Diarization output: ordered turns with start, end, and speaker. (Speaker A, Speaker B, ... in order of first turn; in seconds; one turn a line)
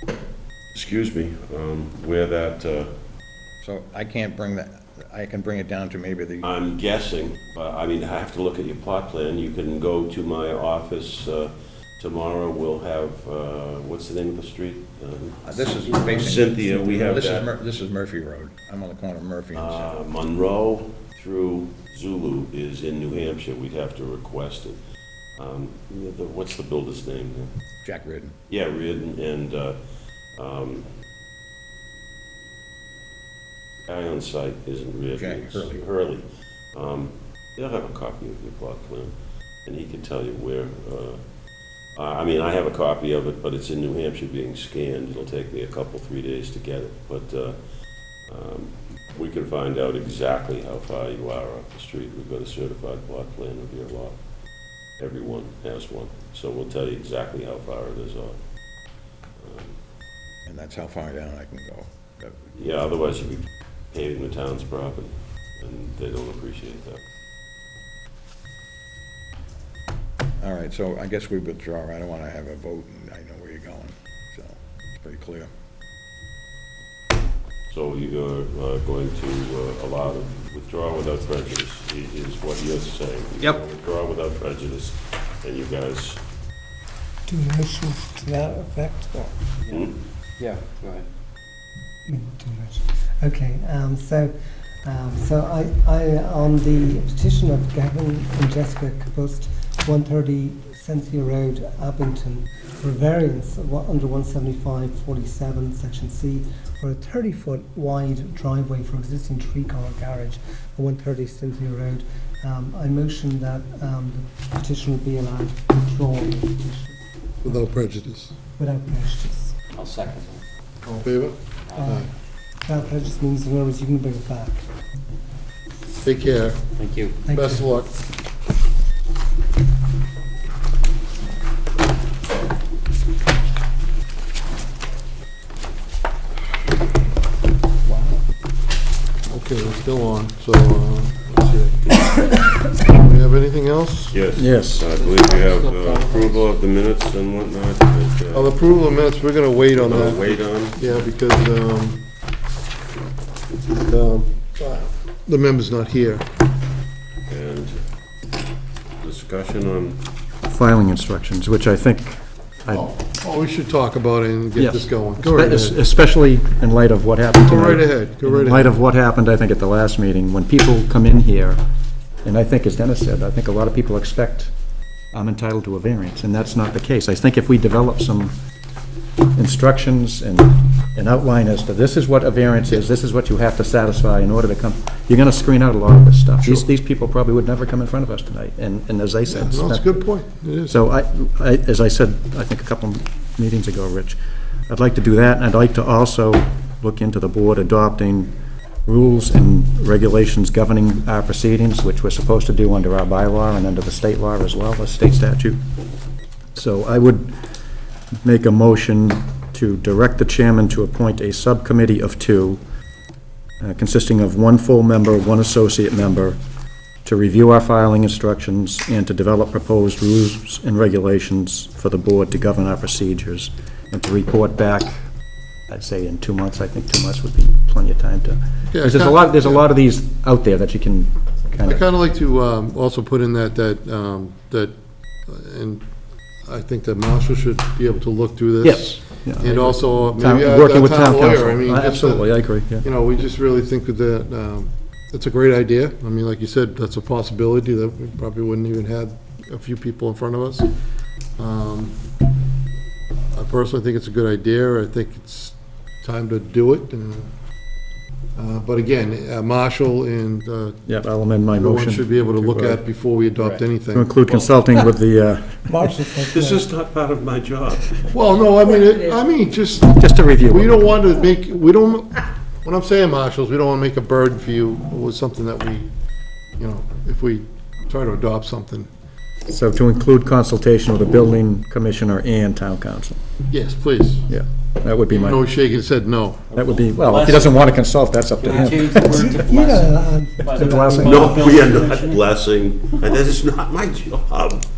Speaker A: 0.7-2.9
Speaker B: 3.6-6.5
Speaker A: 6.4-17.5
Speaker B: 15.4-19.9
Speaker C: 15.6-17.1
Speaker A: 19.5-24.8
Speaker A: 25.4-27.5
Speaker B: 27.8-28.3
Speaker A: 28.5-29.8
Speaker A: 30.4-30.9
Speaker A: 33.9-39.1
Speaker B: 35.1-35.8
Speaker A: 39.6-41.2
Speaker A: 41.9-47.6
Speaker A: 48.2-54.2
Speaker A: 55.0-58.4
Speaker A: 59.4-59.7
Speaker B: 60.5-62.4
Speaker A: 62.5-67.0
Speaker B: 70.4-75.5
Speaker A: 77.7-86.2
Speaker D: 87.3-89.3
Speaker C: 89.6-91.0
Speaker D: 92.1-94.3
Speaker D: 94.8-117.0
Speaker E: 117.4-118.3
Speaker D: 118.6-119.5
Speaker C: 119.7-120.4
Speaker E: 120.8-122.1
Speaker C: 121.7-122.0
Speaker D: 121.8-122.0
Speaker D: 122.6-124.6
Speaker E: 126.0-126.6
Speaker C: 126.8-127.2
Speaker D: 127.3-127.6
Speaker E: 127.3-127.9
Speaker E: 139.3-141.9
Speaker E: 142.9-144.2
Speaker A: 144.1-148.6
Speaker F: 144.3-144.9
Speaker C: 145.0-146.3
Speaker E: 148.3-152.0
Speaker A: 149.7-150.8
Speaker E: 153.8-156.2
Speaker A: 157.3-157.8
Speaker A: 159.0-160.0
Speaker F: 160.5-162.9
Speaker E: 162.7-165.8
Speaker F: 164.6-171.6
Speaker E: 167.4-168.7
Speaker F: 172.2-174.5
Speaker F: 175.1-178.3
Speaker F: 179.3-190.0
Speaker E: 189.3-190.8
Speaker F: 190.7-198.3
Speaker F: 198.8-205.6
Speaker F: 206.5-207.4
Speaker F: 208.2-212.6
Speaker F: 213.6-216.4
Speaker F: 217.0-225.0
Speaker F: 225.7-231.8
Speaker E: 228.7-229.7
Speaker E: 231.6-234.7
Speaker E: 235.2-235.8
Speaker E: 236.4-250.7
Speaker F: 238.6-242.8
Speaker E: 251.4-251.9
Speaker E: 253.3-257.3
Speaker E: 258.3-260.9
Speaker F: 260.9-262.8
Speaker E: 261.5-264.1
Speaker F: 263.9-265.7
Speaker D: 265.7-266.7
Speaker A: 266.2-268.1
Speaker E: 268.1-275.9
Speaker F: 269.9-270.9
Speaker E: 276.6-278.9
Speaker F: 279.5-283.2
Speaker E: 283.5-284.3
Speaker F: 284.3-285.5
Speaker E: 285.1-286.5
Speaker C: 286.5-287.9
Speaker F: 286.5-289.4
Speaker C: 288.4-292.2
Speaker D: 289.5-290.4
Speaker F: 290.5-291.7
Speaker A: 290.9-294.6